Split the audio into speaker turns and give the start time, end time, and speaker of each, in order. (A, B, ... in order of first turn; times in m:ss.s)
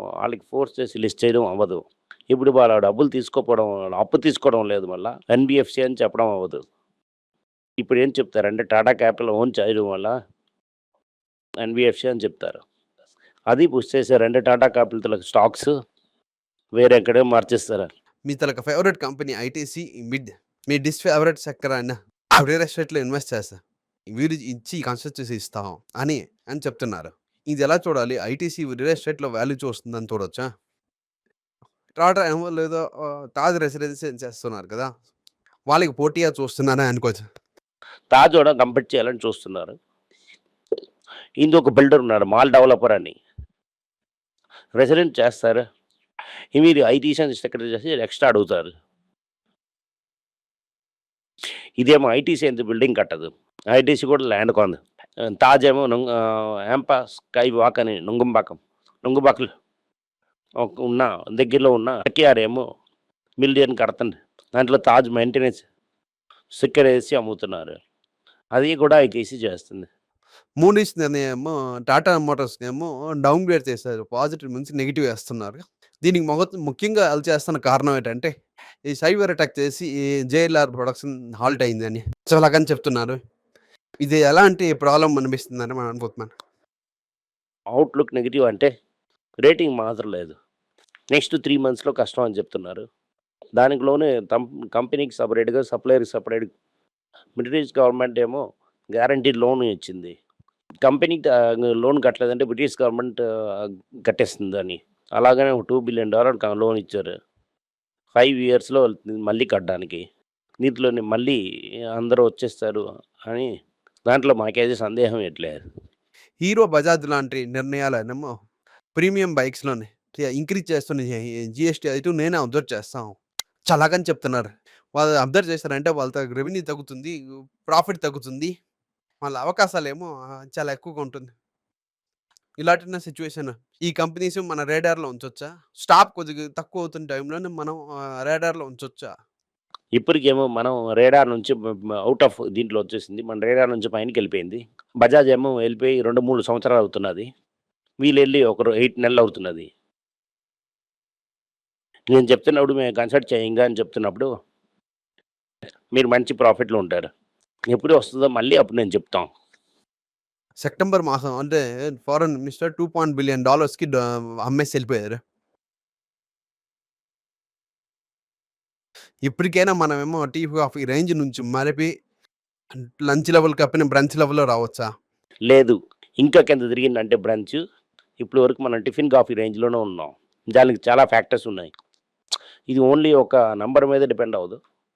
0:00.2-0:06.6 A
0:07.8-0:10.1 A
0:11.6-0:12.6 A
0:13.5-0:15.7 A
0:16.8-0:17.9 A
0:18.3-0:23.6 B
0:24.2-0:30.5 B
0:32.0-0:34.9 B
0:35.7-0:37.2 B
0:38.1-0:39.8 A
0:41.4-0:43.2 A
0:44.8-0:45.6 A
0:46.6-0:48.7 A
0:51.8-0:54.8 A
0:55.3-0:59.5 A
1:00.6-1:02.6 A
1:03.4-1:05.6 A
1:06.6-1:07.8 A
1:08.6-1:09.9 A
1:10.6-1:18.3 B
1:18.9-1:23.2 B
1:24.0-1:26.3 B
1:27.8-1:28.7 A
1:29.4-1:30.4 A
1:31.1-1:32.8 A
1:33.6-1:36.5 A
1:37.4-1:38.4 A
1:38.9-1:40.2 A
1:40.8-1:47.1 A
1:48.2-1:50.0 A
1:50.6-1:51.4 A
1:52.0-1:53.5 A
1:54.1-1:55.6 A
1:56.4-1:58.3 B
1:59.0-2:03.2 B
2:03.7-2:08.5 B
2:09.2-2:11.3 B
2:12.6-2:19.1 B
2:20.0-2:27.3 A
2:28.0-2:29.7 A
2:32.1-2:34.3 A
2:36.0-2:37.1 A
2:37.7-2:39.3 A
2:40.6-2:45.2 B
2:49.3-2:51.9 B
2:52.7-2:54.9 B
2:55.5-2:57.6 A
2:58.2-3:01.7 A
3:02.7-3:04.6 A